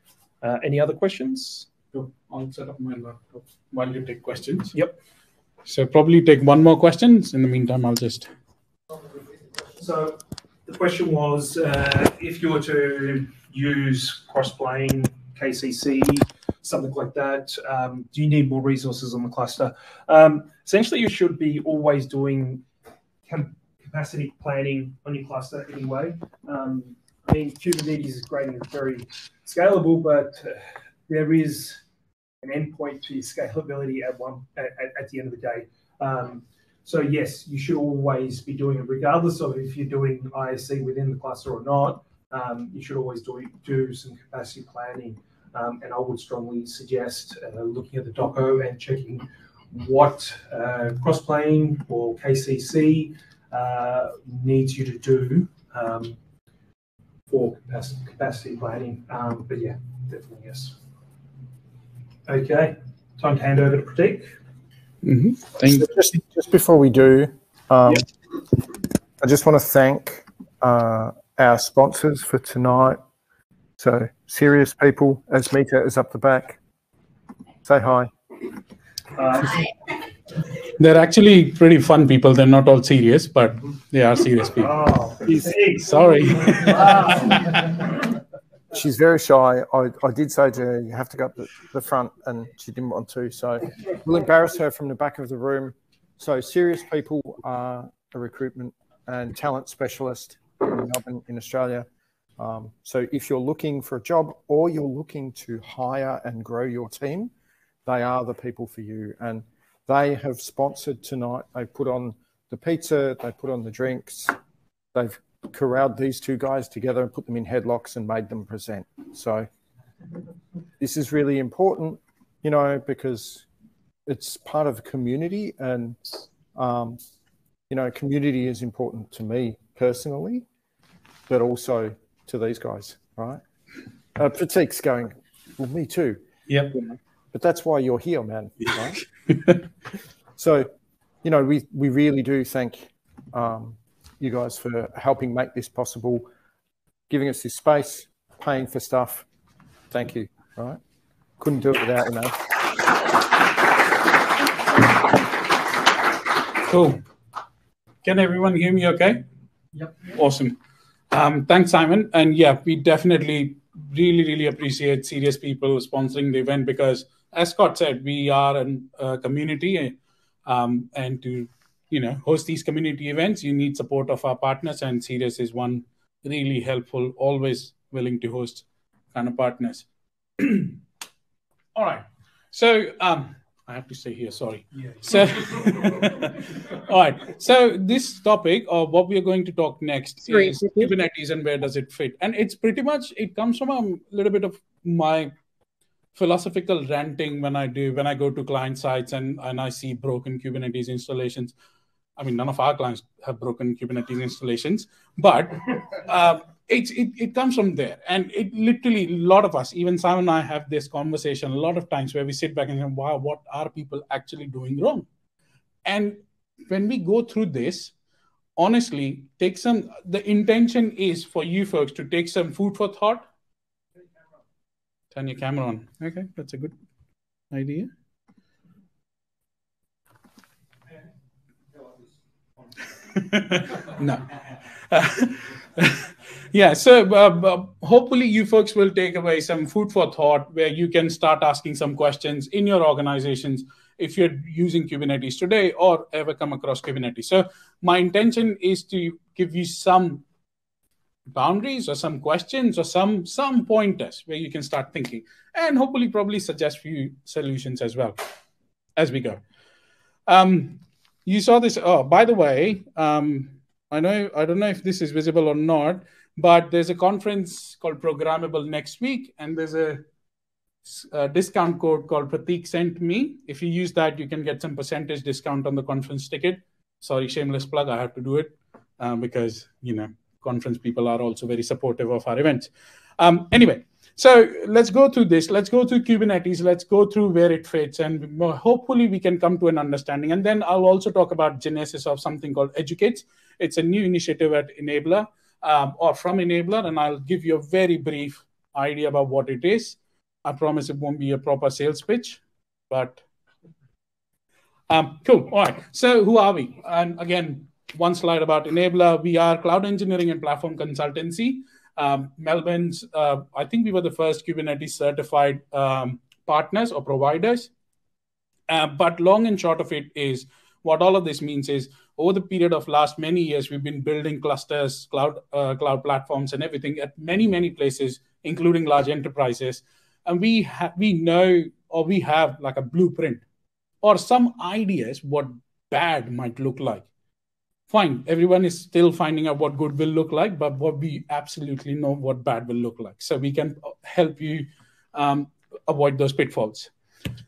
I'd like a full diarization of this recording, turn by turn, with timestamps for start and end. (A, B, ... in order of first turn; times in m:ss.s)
0:00.4-0:01.7 A
0:01.9-0:04.7 B
0:05.7-0:08.3 B
0:09.7-0:22.6 A
0:23.3-0:31.8 A
0:32.4-0:56.2 A
0:57.3-1:00.8 A
1:02.3-1:04.3 A
1:05.0-1:05.8 B
1:05.6-1:08.1 C
1:09.2-1:13.0 C
1:13.8-1:16.6 C
1:17.6-1:18.1 C
1:19.2-1:19.6 A
1:20.8-1:24.8 B
1:24.6-1:27.4 A
1:25.8-1:27.3 B
1:28.7-1:41.9 C
1:42.4-1:47.3 C
1:47.8-1:54.4 C
1:54.9-1:59.5 C
2:00.8-2:03.5 C
2:04.1-2:07.0 C
2:07.7-2:10.5 C
2:11.3-2:13.4 C
2:14.2-2:16.2 C
2:16.5-2:16.9 B
2:17.3-2:19.0 C
2:20.4-2:20.7 C
2:21.2-2:26.3 C
2:27.1-2:29.3 C
2:29.9-2:30.8 C
2:31.4-2:32.5 C
2:36.6-2:37.0 B
2:38.0-2:39.2 B
2:40.1-2:40.6 B
2:41.1-2:50.0 B
2:50.5-2:59.9 B
3:00.4-3:00.8 B
3:01.8-3:15.3 B
3:16.2-3:21.5 B
3:22.2-3:35.1 B
3:35.8-3:37.9 B
3:38.6-3:43.3 B
3:45.1-3:46.7 B
3:47.5-3:47.9 B
3:53.1-3:54.3 B
3:54.9-4:10.2 B
4:11.3-4:18.2 B
4:19.0-4:19.4 B
4:20.3-4:30.0 B
4:30.8-5:03.2 B
5:04.9-5:17.7 B
5:18.7-5:33.4 B
5:34.0-5:37.0 B
5:37.9-5:46.9 B